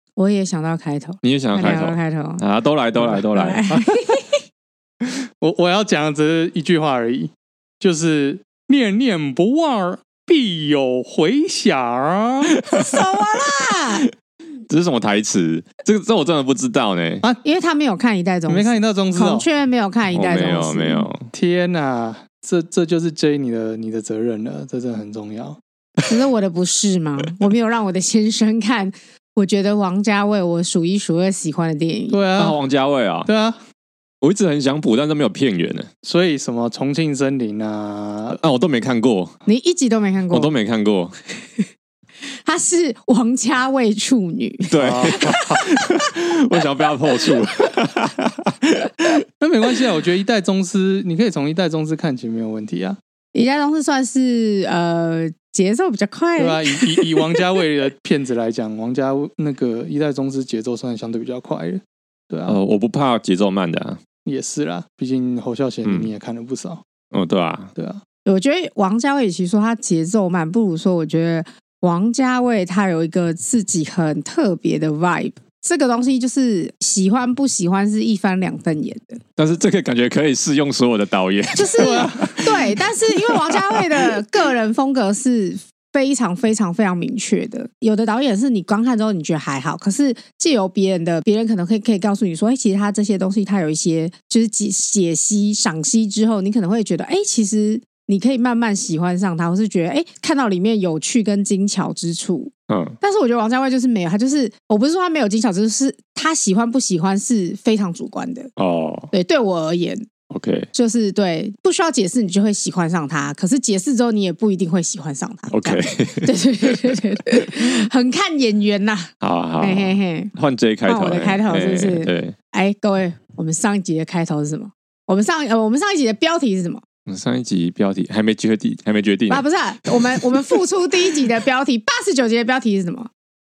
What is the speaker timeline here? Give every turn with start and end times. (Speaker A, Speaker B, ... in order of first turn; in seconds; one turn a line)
Speaker A: 0.2-2.4
Speaker B: 1.2-3.6
Speaker A: 3.1-4.4
Speaker C: 5.4-12.6
Speaker B: 12.7-13.0
Speaker A: 12.7-14.1
Speaker B: 14.7-17.2
Speaker A: 17.4-21.1
Speaker C: 18.5-19.5
Speaker B: 20.1-21.3
Speaker C: 21.3-25.6
Speaker A: 26.1-32.2
Speaker C: 32.1-32.6
Speaker B: 32.4-33.3
Speaker C: 33.3-33.6
Speaker B: 34.2-35.9
Speaker C: 36.0-38.4
Speaker B: 38.4-39.3
Speaker A: 39.5-40.5
Speaker B: 40.3-41.1
Speaker A: 42.5-45.9
Speaker B: 44.7-49.2
Speaker C: 44.8-45.6
Speaker C: 49.4-53.0
Speaker A: 53.3-57.1
Speaker C: 56.4-62.6
Speaker B: 62.5-64.0
Speaker C: 64.3-66.8
Speaker B: 67.1-67.7
Speaker C: 67.8-68.0
Speaker A: 68.3-79.2
Speaker B: 79.4-84.2
Speaker A: 81.5-108.5
Speaker C: 81.8-82.4
Speaker B: 102.7-103.0
Speaker B: 108.6-109.1
Speaker A: 109.1-110.1
Speaker B: 110.3-110.7
Speaker A: 110.7-120.3
Speaker B: 115.5-116.4
Speaker B: 119.2-122.3
Speaker A: 120.8-126.8
Speaker B: 127.1-130.5
Speaker A: 129.3-133.1